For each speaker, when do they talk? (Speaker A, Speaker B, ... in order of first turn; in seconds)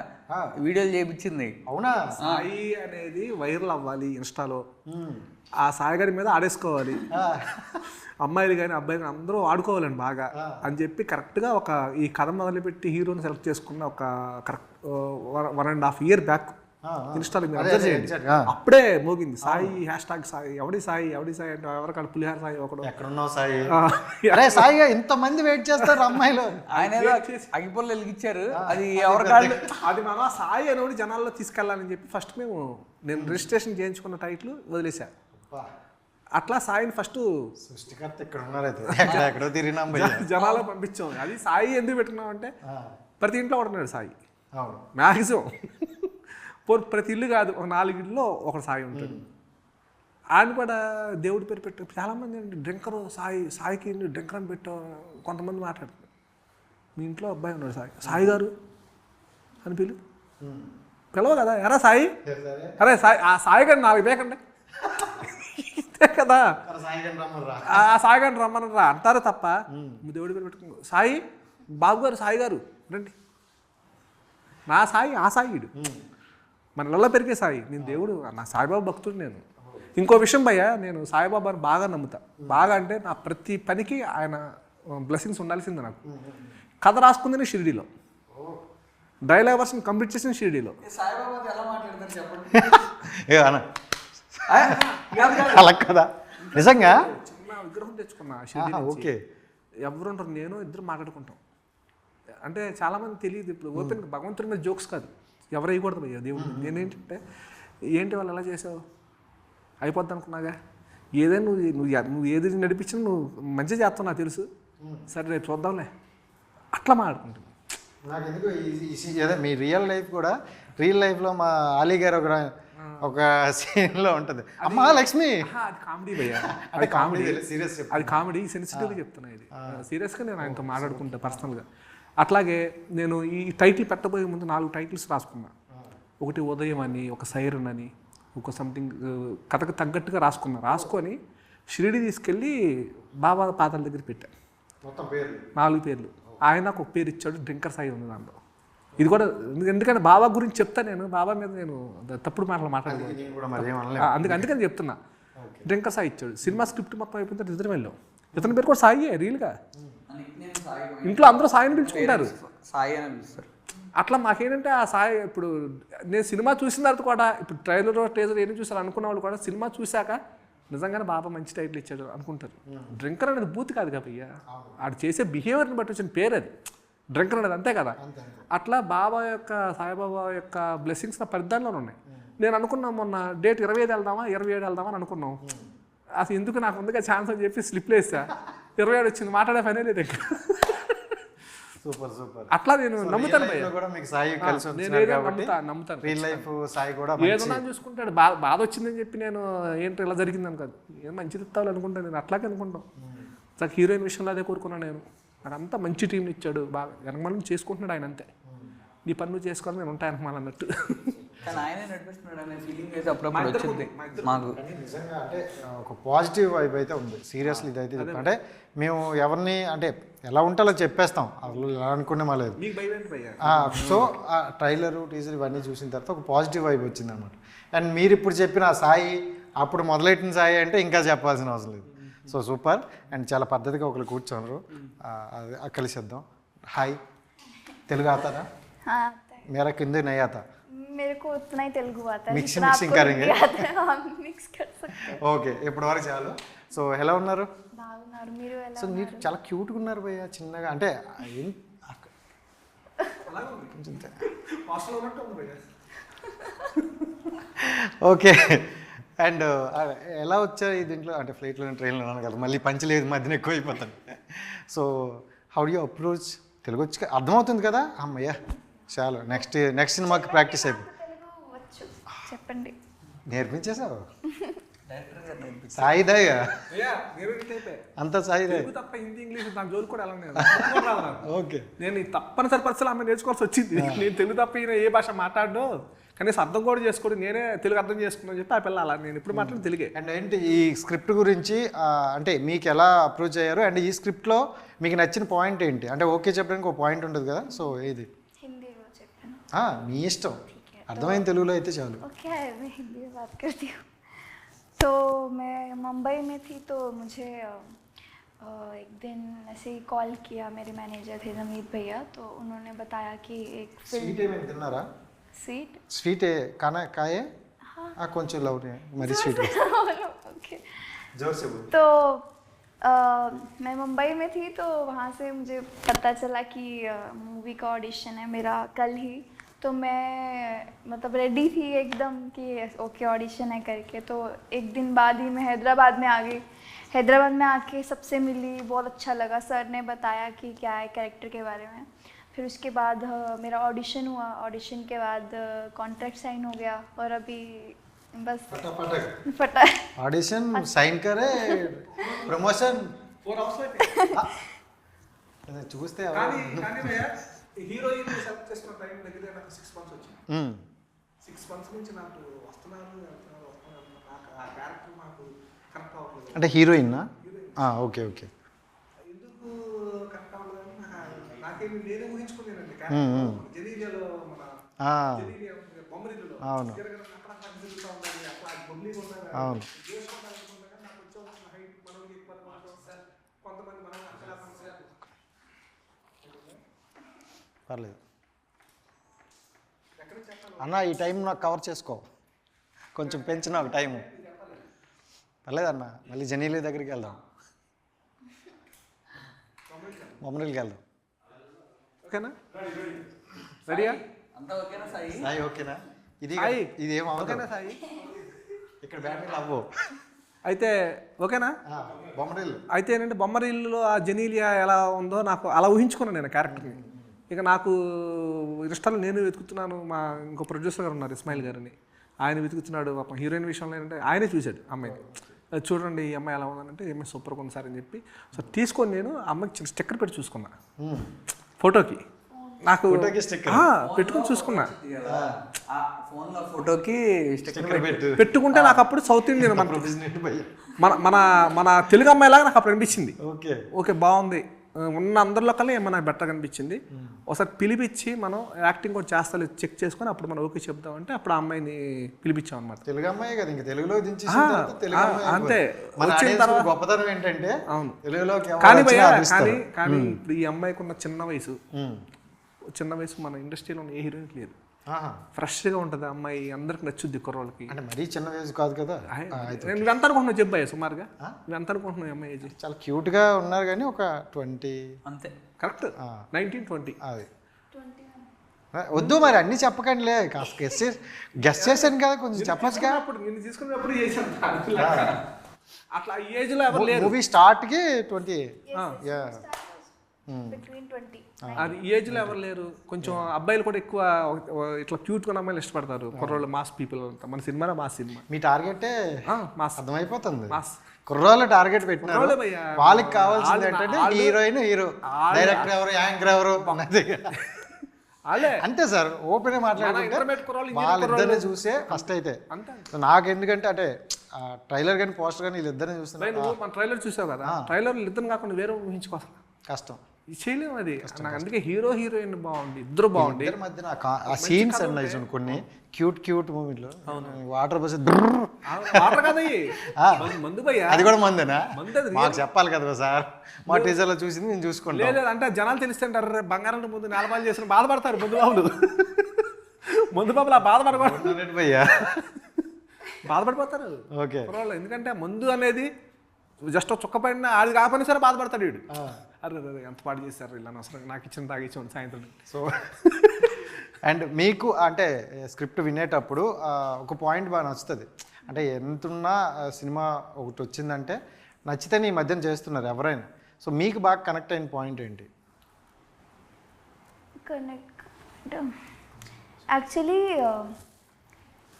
Speaker A: 0.6-1.5, 2.2-2.5, 26.7-29.6, 40.4-40.7, 90.8-92.9, 94.5-95.7, 160.1-163.5, 211.4-214.6, 274.9-276.0, 403.7-405.3, 433.8-438.8, 475.1-475.3
Speaker B: 1.7-2.0, 4.9-5.2, 7.1-7.8, 10.3-10.6, 16.8-18.4, 19.4-19.8, 22.8-23.7, 24.3-26.6, 28.5-29.6, 33.1-33.5, 35.3-35.7, 37.6-40.3, 42.6-42.9, 44.6-44.8, 48.9-49.2, 58.0-58.3, 60.4-60.7, 62.2-62.8, 66.6-67.9, 69.7-70.0, 75.8-76.0, 86.1-86.5, 88.3-88.6, 92.5-93.7, 94.3-97.0, 98.5-99.2, 103.7-104.0, 106.3-106.9, 118.0-125.4, 126.3-129.0, 130.4-131.5, 144.8-145.5, 148.9-149.2, 152.8-154.5, 155.4-155.7, 161.8-162.1, 172.7-173.0, 174.5-174.8, 178.0-178.5, 185.4-185.7, 191.8-195.5, 196.0-197.6, 203.0-203.3, 208.4-208.7, 211.3-211.7, 214.5-222.6, 223.4-237.0, 237.9-238.5, 239.5-240.4, 242.3-243.6, 245.1-247.5, 248.8-252.1, 253.8-254.2, 257.6-270.9, 273.3-274.1, 275.7-276.5, 278.0-278.7, 280.4-281.7, 283.7-284.1, 289.3-298.1, 299.5-302.0, 313.9-314.9, 315.9-317.3, 318.0-319.5, 321.1-321.7, 348.5-349.1, 350.0-352.9, 355.5-357.0, 360.3-360.6, 366.3-368.3, 372.9-373.4, 374.8-375.3, 376.4-376.8, 379.3-379.7, 387.7-388.0, 390.6-392.1, 392.9-394.1, 395.4-397.2, 400.2-400.8, 405.1-407.5, 408.8-409.7, 411.7-412.6, 416.4-417.1, 424.8-425.3, 430.8-431.1, 432.9-433.7, 435.0-435.4, 437.5-438.2, 439.4-440.5, 443.2-443.6, 446.9-447.2, 452.9-460.2, 461.7-462.0, 464.9-465.2, 467.7-469.9, 472.5-474.9, 477.0-477.3, 478.7-483.0, 484.7-485.1, 486.7-489.4, 490.3-490.6, 491.4-492.4, 493.0-493.3, 496.1-496.4, 498.3-498.9, 499.8-507.3, 508.4-512.4, 512.9-516.6, 519.7-520.0, 521.0-521.5, 523.1-529.3, 529.9-530.4, 530.9-535.2, 540.9-542.1, 544.1-544.5, 548.9-549.2, 552.5-552.9, 554.0-565.3
Speaker C: 2.2-4.6, 5.6-7.1, 8.2-16.6, 17.1-22.9, 23.7-24.7, 25.8-27.5, 29.7-35.1, 36.4-37.3, 38.9-39.2, 39.9-42.5, 43.2-44.1, 45.0-46.1, 46.6-49.2, 50.4-56.0, 57.0-58.5, 59.6-60.0, 61.1-62.1, 62.8-64.4, 65.0-66.5, 67.7-73.1, 74.7-75.7, 76.8-79.4, 80.0-86.0, 86.8-87.9, 89.2-90.8, 94.7-95.6, 96.5-99.1, 99.8-101.4, 102.4-107.2, 107.9-108.8, 109.8-110.5, 111.2-114.5, 115.1-115.9, 116.7-117.5, 122.8-123.1, 124.6-131.7, 132.2-135.5, 136.2-141.2, 141.7-142.5, 143.2-144.3, 145.6-148.4, 149.0-155.0, 155.7-159.6, 161.0-162.3, 164.0-165.5, 166.1-176.5, 177.1-178.0, 178.5-185.4, 186.2-191.2, 192.5-193.7, 194.4-196.4, 197.2-202.8, 203.6-208.3, 209.1-211.2, 213.3-214.5, 217.4-218.3, 222.6-224.1, 231.9-232.3, 253.3-253.8, 254.4-255.7, 276.7-277.8, 278.5-281.3, 281.8-289.9, 351.9-352.4, 353.2-354.0, 356.1-360.2, 361.2-366.6, 367.2-367.6, 369.1-374.6, 375.1-384.9, 386.2-386.6, 390.0-390.8, 393.0-394.6, 399.7-400.2, 402.0-402.4, 403.7-404.0, 406.4-408.2, 410.4-411.6, 412.7-416.8, 417.3-425.0, 425.6-430.5, 431.6-432.0, 432.6-434.7, 438.1-439.9, 440.8-443.2, 443.7-452.8, 454.3-456.7, 457.7-458.0, 458.6-461.6, 462.7-464.5, 465.4-467.7, 469.1-472.5, 475.6-477.0, 478.9-479.4, 481.5-485.2, 485.9-487.1, 491.6-498.2, 499.3-499.8, 500.5-500.8, 502.0-504.4, 505.1-505.7, 508.3-508.6, 509.8-512.9, 516.2-519.4, 520.4-523.5, 524.3-525.6, 527.1-527.4, 528.7-531.1, 531.7-532.4, 533.7-533.9, 534.9-541.3, 541.9-542.6, 543.2-545.9, 546.7-548.8, 549.4-552.4, 552.9-553.6
Speaker D: 238.8-239.5, 240.7-245.2, 247.8-249.3, 270.0-272.7, 297.5-297.7, 298.4-299.4, 300.5-301.2, 302.0-303.9, 304.8-307.7, 308.4-314.2, 315.4-315.8, 317.7-317.9, 319.0-320.6, 321.7-322.2, 322.8-348.7, 349.2-349.9, 432.3-432.6, 477.7-478.3, 488.7-489.9, 490.5-491.8, 567.4-568.7, 569.7-570.7